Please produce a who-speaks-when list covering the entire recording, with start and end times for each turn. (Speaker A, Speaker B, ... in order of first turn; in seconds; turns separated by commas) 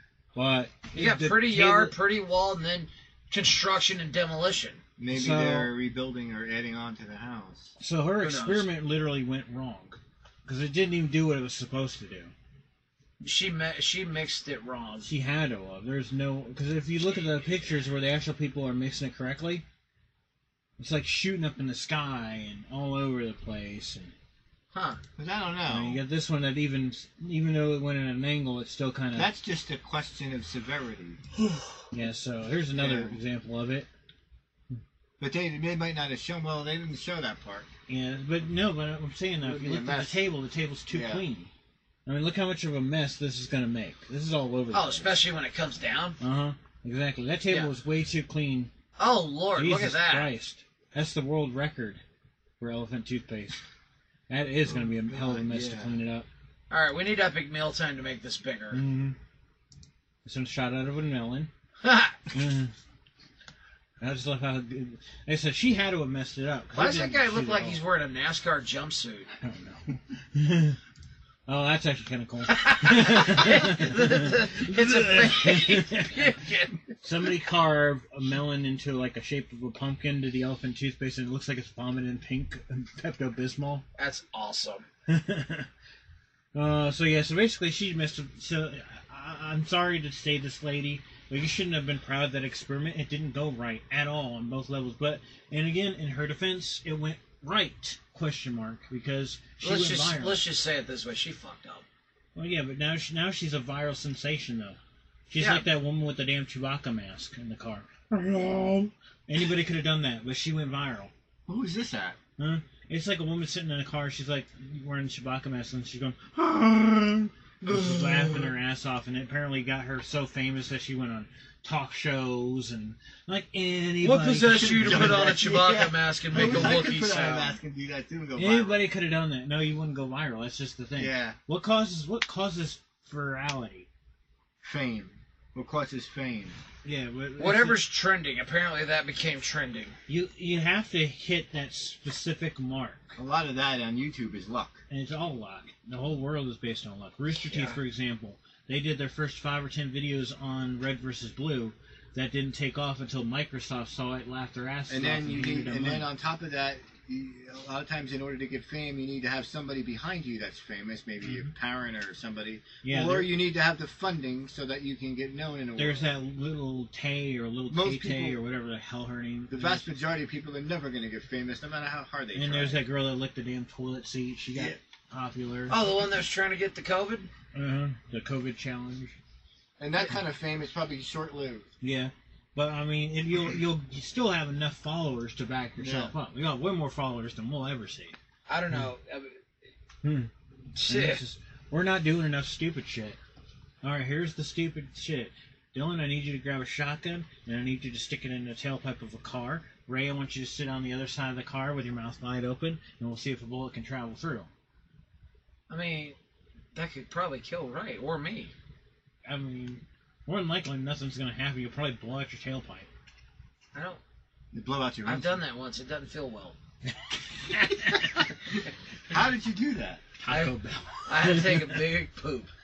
Speaker A: 0.3-1.9, Speaker B: 0.9-4.8, Speaker C: 5.0-7.7, Speaker A: 5.1-5.7, Speaker A: 7.8-12.3, Speaker B: 8.2-8.7, Speaker B: 13.2-15.1, Speaker A: 15.0-19.6, Speaker A: 20.8-24.1, Speaker B: 24.7-25.0, Speaker C: 25.1-26.0, Speaker A: 25.7-29.3, Speaker C: 29.1-31.2, Speaker A: 31.9-33.9, Speaker C: 32.7-33.2, Speaker C: 35.2-37.7, Speaker A: 37.9-41.5, Speaker C: 39.4-40.3, Speaker C: 40.9-41.2, Speaker A: 42.0-45.2, Speaker B: 44.7-46.2, Speaker A: 46.2-48.7, Speaker B: 49.0-50.3, Speaker A: 49.5-52.0, Speaker A: 52.6-53.6, Speaker A: 54.3-56.3, Speaker C: 54.6-56.0, Speaker B: 56.7-58.8, Speaker A: 58.7-59.1, Speaker A: 60.2-61.5, Speaker B: 61.8-62.2, Speaker A: 62.3-62.7, Speaker A: 64.0-67.8, Speaker B: 66.7-69.3, Speaker A: 69.4-70.8, Speaker A: 71.5-76.3, Speaker B: 72.5-76.9, Speaker A: 77.0-83.8, Speaker B: 84.0-84.8, Speaker A: 85.1-85.7, Speaker A: 86.5-100.5, Speaker B: 99.6-101.8, Speaker A: 102.3-104.8, Speaker A: 105.3-111.1, Speaker B: 105.4-105.6, Speaker C: 111.5-112.2, Speaker A: 112.4-125.3, Speaker C: 117.6-118.5, Speaker B: 124.0-127.6, Speaker C: 124.5-128.8, Speaker A: 128.3-133.9, Speaker C: 131.0-131.4, Speaker C: 134.6-136.6, Speaker A: 136.8-137.9, Speaker B: 137.4-139.9, Speaker A: 140.1-143.2, Speaker C: 143.2-144.8, Speaker A: 144.9-156.1, Speaker C: 154.9-166.1, Speaker A: 162.8-163.3, Speaker A: 165.8-169.8, Speaker C: 167.7-168.4, Speaker C: 169.5-172.8, Speaker A: 172.3-175.8, Speaker B: 175.7-177.3, Speaker A: 177.5-179.2, Speaker C: 179.8-181.7, Speaker A: 181.8-188.2, Speaker C: 185.8-186.1, Speaker B: 188.5-189.4, Speaker A: 190.0-190.3, Speaker B: 190.7-191.2, Speaker A: 190.9-193.2, Speaker A: 193.8-204.5, Speaker B: 205.7-206.2, Speaker B: 206.7-208.5, Speaker A: 209.2-212.9, Speaker B: 213.7-214.0, Speaker C: 214.5-215.4, Speaker B: 215.0-216.6, Speaker A: 217.5-218.1, Speaker C: 219.1-220.0, Speaker A: 220.2-221.8, Speaker B: 220.3-222.5